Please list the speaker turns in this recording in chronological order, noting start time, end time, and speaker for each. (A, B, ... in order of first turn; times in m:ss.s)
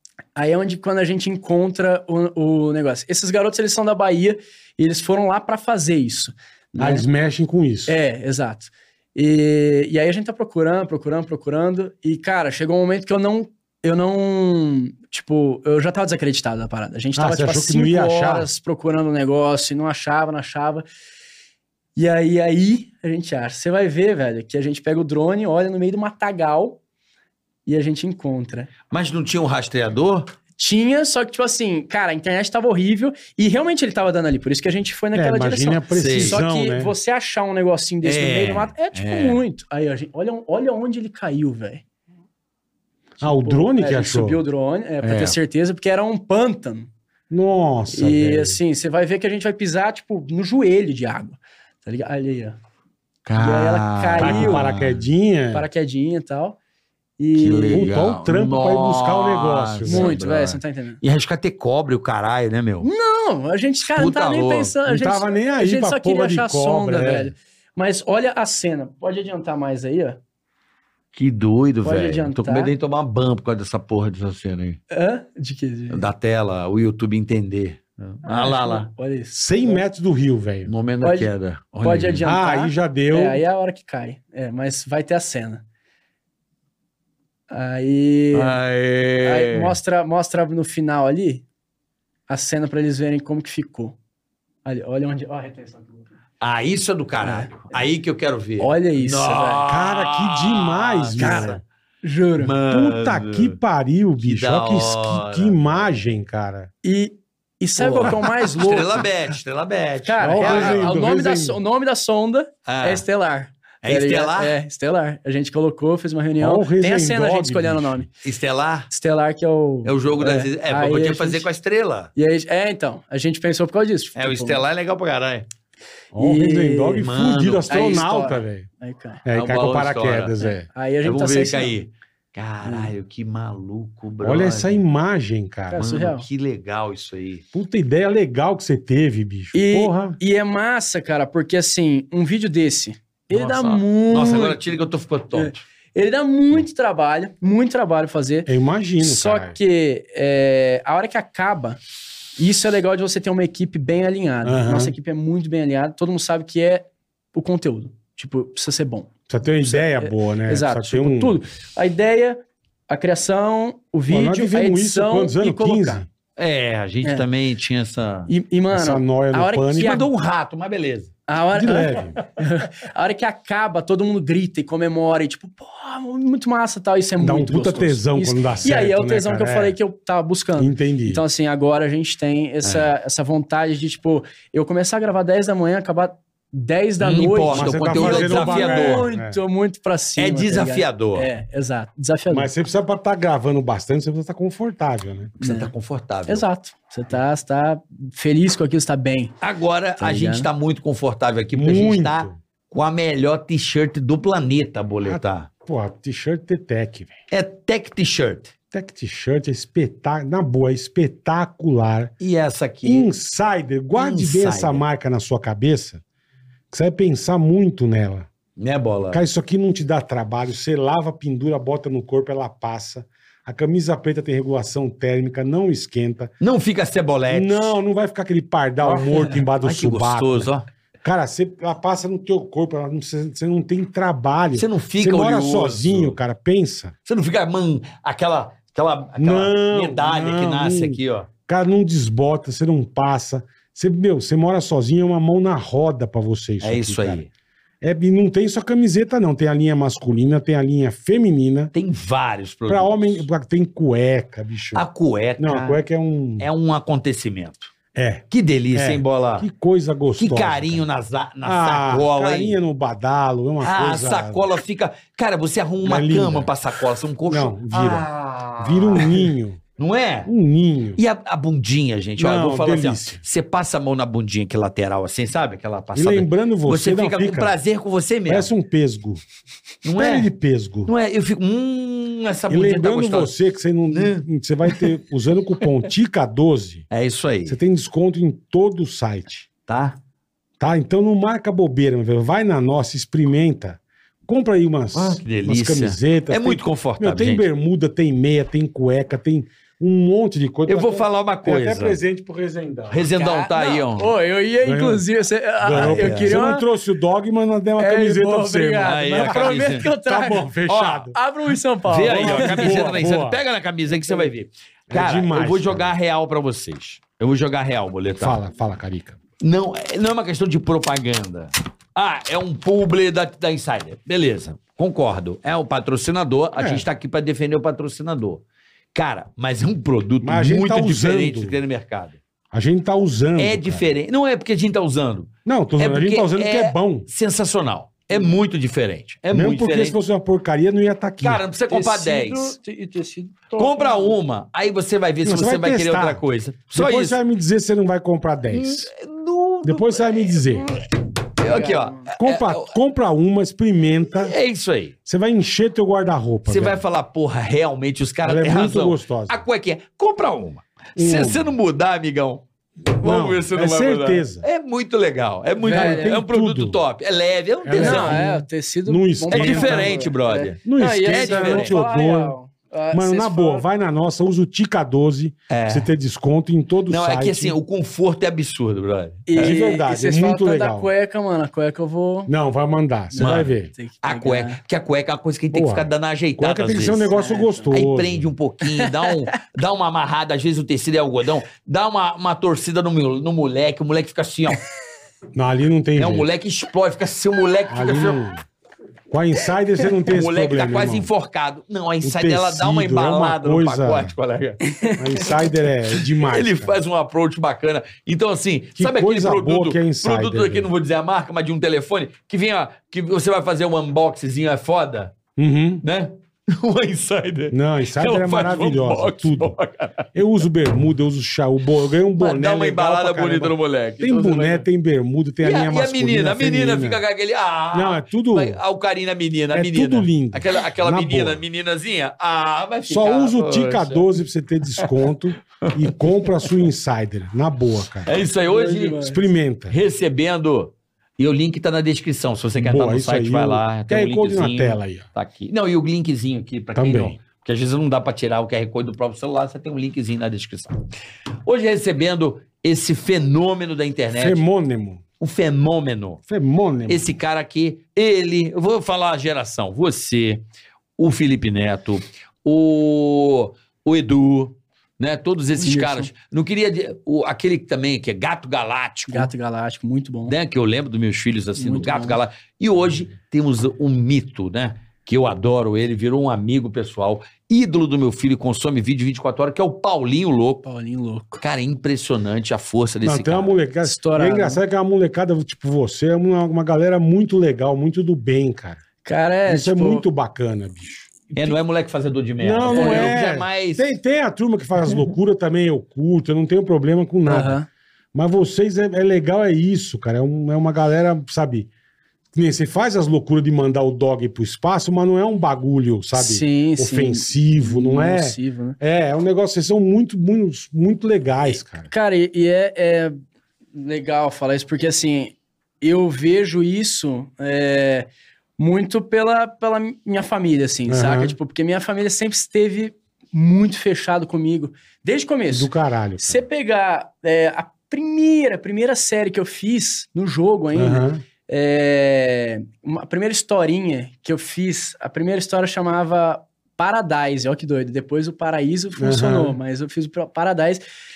0:00.4-0:07.0 A
0:06.8-0:07.9 B
0:07.9-0:20.8 A
0:17.2-0:18.5 B
0:22.0-0:26.8 A
0:27.6-0:28.7 A
0:28.9-0:30.3 C
0:30.6-0:41.8 A
0:35.1-0:36.9 B
0:35.9-0:36.4 C
0:38.0-0:39.4 C
0:43.2-0:44.4 B
0:43.2-0:46.9 A
0:45.0-0:45.4 C
0:47.3-0:48.6 B
0:47.9-0:52.6 A
0:53.2-0:55.0 C
0:53.4-0:54.6 A
0:54.2-0:55.7 B
0:55.5-0:56.6 A
0:57.2-0:57.9 A
0:57.3-1:02.9 C
0:57.7-1:00.1 B
0:59.8-1:01.0 A
1:02.8-1:10.2 A
1:03.8-1:04.7 C
1:04.9-1:07.3 B
1:11.1-1:14.8 C
1:11.8-1:12.7 A
1:14.9-1:16.0 A
1:15.9-1:18.9 C
1:18.2-1:19.8 A
1:19.3-1:20.7 B
1:20.7-1:22.3 C
1:21.0-1:21.3 A
1:21.8-1:25.6 A
1:22.2-1:23.4 B
1:27.5-1:28.6 A
1:28.3-1:29.8 C
1:29.2-1:31.4 A
1:32.3-1:34.0 A
1:34.6-1:36.1 A
1:36.4-1:41.6 C
1:37.2-1:37.8 A
1:38.6-1:39.6 A
1:39.7-1:41.6 B
1:41.2-1:42.6 A
1:42.4-1:43.6 C
1:42.7-1:46.7 B
1:44.2-1:45.8 C
1:46.8-1:49.0 A
1:47.8-1:51.0 C
1:50.0-1:58.1 A
1:50.2-1:51.6 B
1:52.6-1:53.0 C
1:53.8-1:54.6 C
1:56.4-1:58.0 B
1:58.2-1:58.9 C
1:58.9-2:01.5 A
1:59.8-2:02.1 C
2:02.2-2:04.6 A
2:04.2-2:05.5 C
2:06.1-2:08.7 B
2:06.2-2:07.0 A
2:07.0-2:08.1 C
2:07.7-2:09.2 A
2:09.2-2:10.7 B
2:09.3-2:10.4 C
2:10.7-2:11.7 A
2:11.0-2:14.8 C
2:12.6-2:12.9 A
2:14.2-2:15.8 B
2:15.7-2:16.3 A
2:15.8-2:17.4 C
2:17.5-2:20.2 B
2:19.5-2:24.6 A
2:23.3-2:25.6 C
2:25.3-2:31.8 A
2:28.5-2:29.6 B
2:32.4-2:39.1 A
2:34.4-2:34.9 B
2:39.3-2:41.4 B
2:39.6-2:46.0 A
2:44.1-2:46.1 B
2:46.4-2:48.3 C
2:48.3-2:50.1 A
2:48.7-2:50.0 B
2:49.8-2:51.1 C
2:51.3-3:12.5 A
2:51.5-2:52.2 B
2:57.2-2:59.7 B
3:00.6-3:01.2 B
3:02.6-3:02.9 C
3:07.0-3:09.1 C
3:07.5-3:09.4 B
3:10.2-3:11.3 C
3:12.3-3:15.3 B
3:15.4-3:16.4 C
3:15.4-3:15.7 A
3:16.3-3:19.3 A
3:19.4-3:25.5 C
3:20.0-3:20.5 A
3:21.5-3:22.4 B
3:25.0-3:27.2 B
3:27.3-3:28.5 C
3:28.7-3:32.1 B
3:32.2-3:33.1 C
3:32.8-3:36.0 B
3:33.9-3:34.8 C
3:36.7-3:38.3 B
3:38.6-3:39.2 C
3:39.1-3:46.3 B
3:46.4-3:47.8 C
3:47.3-3:50.5 B
3:48.9-3:50.6 C
3:51.0-3:56.9 B
3:54.5-3:56.2 C
3:57.0-4:01.3 C
3:59.2-4:07.2 B
4:06.6-4:07.3 C
4:07.8-4:11.7 B
4:11.7-4:13.3 C
4:12.7-4:14.8 B
4:14.7-4:15.8 C
4:15.4-4:16.5 B
4:16.4-4:17.7 C
4:17.9-4:20.8 B
4:18.3-4:19.5 C
4:20.2-4:22.6 C
4:21.4-4:24.4 B
4:23.6-4:30.3 C
4:25.8-4:26.5 B
4:27.3-4:29.6 B
4:30.2-4:31.0 B
4:31.0-4:38.5 C
4:32.2-4:33.2 B
4:35.9-4:37.6 B
4:38.3-4:39.2 B
4:39.8-4:40.3 C
4:39.9-4:40.9 B
4:40.8-4:43.3 C
4:42.5-4:46.9 B
4:43.9-4:44.9 C
4:46.9-4:47.6 C
4:47.4-4:49.5 B
4:49.7-4:50.0 C
4:50.6-5:03.1 B
4:54.9-4:57.4 C
5:00.7-5:02.0 C
5:02.9-5:04.1 C
5:03.1-5:06.6 A
5:04.6-5:05.0 B
5:05.6-5:11.1 B
5:05.7-5:06.4 C
5:07.8-5:10.5 A
5:08.8-5:09.9 C
5:10.7-5:11.1 C
5:11.1-5:13.0 A
5:11.8-5:18.4 C
5:12.1-5:13.4 B
5:14.9-5:15.9 B
5:18.2-5:19.2 B
5:19.4-5:28.4 C
5:26.6-5:26.8 B
5:28.9-5:32.2 C
5:30.2-5:31.6 B
5:32.5-5:33.9 B
5:33.4-5:40.0 C
5:35.4-5:37.1 B
5:39.3-5:41.4 B
5:41.2-5:42.6 C
5:41.7-5:44.1 A
5:43.6-5:47.2 C
5:45.2-5:48.9 B
5:48.5-5:50.8 C
5:49.6-5:50.7 B
5:51.4-5:52.7 C
5:51.4-5:52.1 A
5:52.2-5:54.3 B
5:54.2-5:54.9 C
5:55.0-5:56.8 B
5:56.4-6:08.2 C
5:58.2-5:59.4 B
6:01.0-6:01.5 B
6:03.0-6:04.4 B
6:05.6-6:06.2 A
6:05.6-6:06.8 B
6:07.6-6:10.0 B
6:07.8-6:13.6 A
6:09.3-6:11.8 C
6:10.6-6:12.3 B
6:12.9-6:17.6 B
6:15.5-6:15.9 C
6:16.9-6:19.6 C
6:19.3-6:22.3 A
6:19.4-6:20.9 B
6:22.3-6:23.7 B
6:23.1-6:24.6 A
6:23.2-6:27.1 C
6:25.5-6:28.3 B
6:27.1-6:27.7 A
6:27.7-6:34.6 C
6:28.8-6:29.2 A
6:35.3-6:36.3 B
6:36.0-6:38.2 C
6:37.7-6:38.4 B
6:39.1-6:41.1 B
6:40.0-6:44.6 C
6:42.0-6:44.1 B
6:44.6-6:45.3 A
6:45.0-6:46.8 B
6:46.0-6:55.1 C
6:48.8-6:50.7 B
6:55.4-6:55.8 B
6:55.8-7:00.1 C
6:57.5-6:59.6 B
7:00.1-7:07.0 B
7:02.2-7:04.6 C
7:05.4-7:14.1 C
7:07.7-7:08.6 B
7:09.5-7:11.4 B
7:12.9-7:18.2 B
7:15.6-7:16.5 C
7:18.0-7:19.0 C
7:18.4-7:19.2 A
7:19.0-7:19.8 B
7:19.7-7:30.8 C
7:22.6-7:25.1 B
7:26.7-7:27.2 B
7:31.4-7:34.4 C
7:34.1-7:35.0 B
7:35.2-7:36.2 C
7:36.3-7:37.1 B
7:36.9-7:40.4 C
7:41.0-7:49.3 C
7:45.6-7:46.1 A
7:49.1-7:50.3 A
7:50.3-8:00.6 C
7:51.6-7:52.2 A
8:00.6-8:01.4 A
8:01.4-8:03.6 C
8:03.0-8:08.8 B
8:03.8-8:04.6 A
8:09.0-8:10.0 A
8:09.5-8:11.1 B
8:11.3-8:13.8 C
8:12.4-8:17.6 B
8:12.7-8:13.2 A
8:17.2-8:17.7 A
8:18.1-8:21.7 B
8:22.3-8:31.9 B
8:26.1-8:28.8 A
8:31.4-8:33.2 A
8:33.7-9:00.8 A
8:40.9-8:41.4 B
8:45.5-8:46.4 B
8:50.7-8:51.2 B
8:59.0-8:59.6 B